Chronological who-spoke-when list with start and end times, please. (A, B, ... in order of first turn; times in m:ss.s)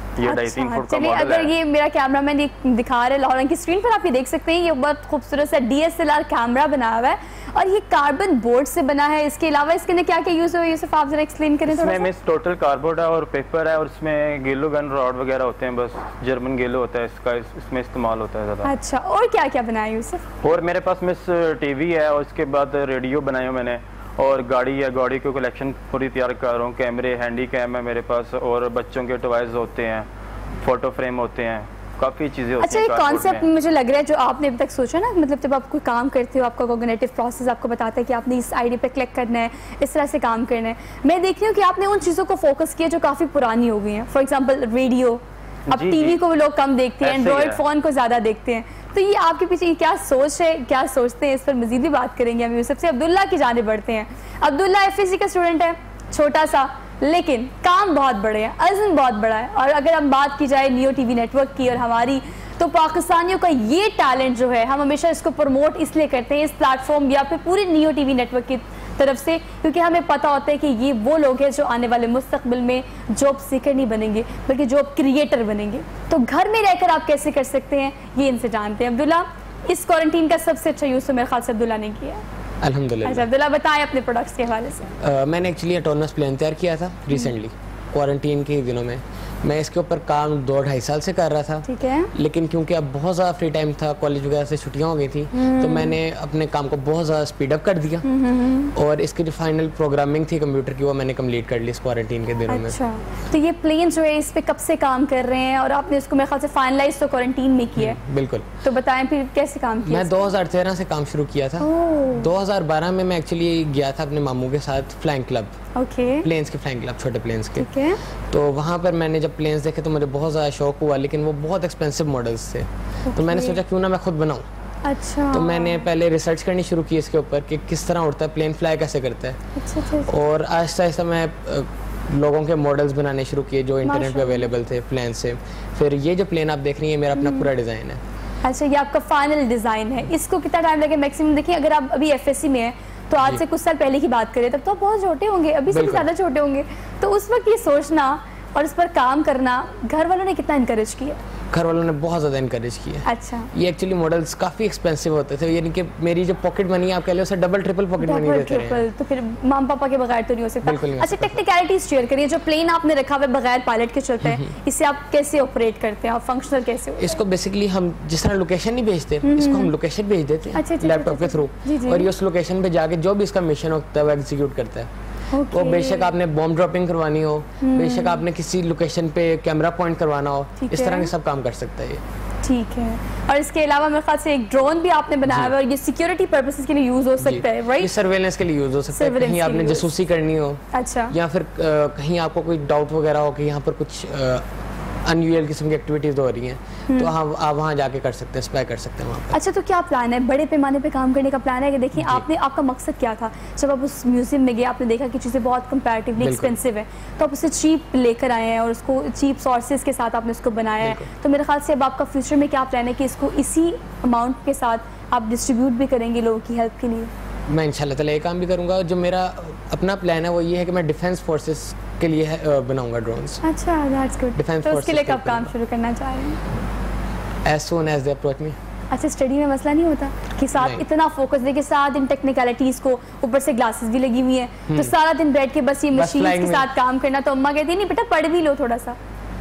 0:00.2-0:01.5 A
0:00.2-0:12.1 B
0:11.7-0:18.7 A
0:18.6-0:20.2 B
0:20.4-0:30.1 A
0:30.6-0:33.4 A
0:32.6-1:22.2 B
0:45.7-0:46.2 A
0:47.0-0:47.6 A
1:22.6-1:23.3 C
1:23.0-1:24.9 B
1:25.0-1:38.0 C
1:31.6-1:32.1 B
1:35.3-1:36.0 B
1:38.0-1:38.7 B
1:38.7-1:42.8 C
1:42.5-1:48.0 B
1:47.8-1:48.4 C
1:48.6-1:50.3 B
1:49.8-1:55.5 C
1:51.6-1:52.3 B
1:55.8-1:56.3 B
1:56.2-1:57.7 C
1:57.6-1:58.0 B
1:58.3-2:04.4 C
2:03.1-2:03.6 B
2:04.8-2:05.9 B
2:05.3-2:09.4 C
2:09.6-2:10.1 B
2:10.0-2:18.0 C
2:13.8-2:14.5 B
2:17.2-2:17.5 B
2:18.4-2:31.2 B
2:25.7-2:26.1 C
2:31.5-2:38.8 C
2:33.0-2:33.5 B
2:38.0-2:47.2 B
2:40.6-2:41.4 C
2:44.2-2:44.5 C
2:47.0-2:54.9 C
2:49.2-2:49.7 B
2:50.5-2:52.1 B
2:55.3-2:56.1 B
2:55.5-3:02.0 C
2:57.6-2:58.2 B
3:00.6-3:01.1 B
3:02.4-3:07.9 B
3:07.2-3:14.4 C
3:08.9-3:09.9 B
3:10.7-3:11.1 B
3:15.0-3:19.4 C
3:19.3-3:37.1 B
3:22.0-3:22.2 C
3:26.2-3:26.6 C
3:30.8-3:31.1 C
3:37.5-3:43.4 C
3:43.4-3:46.4 B
3:44.3-3:45.5 C
3:47.4-3:48.6 C
3:48.9-3:59.0 B
3:50.6-3:50.8 C
3:54.7-3:54.9 C
3:55.9-3:56.7 C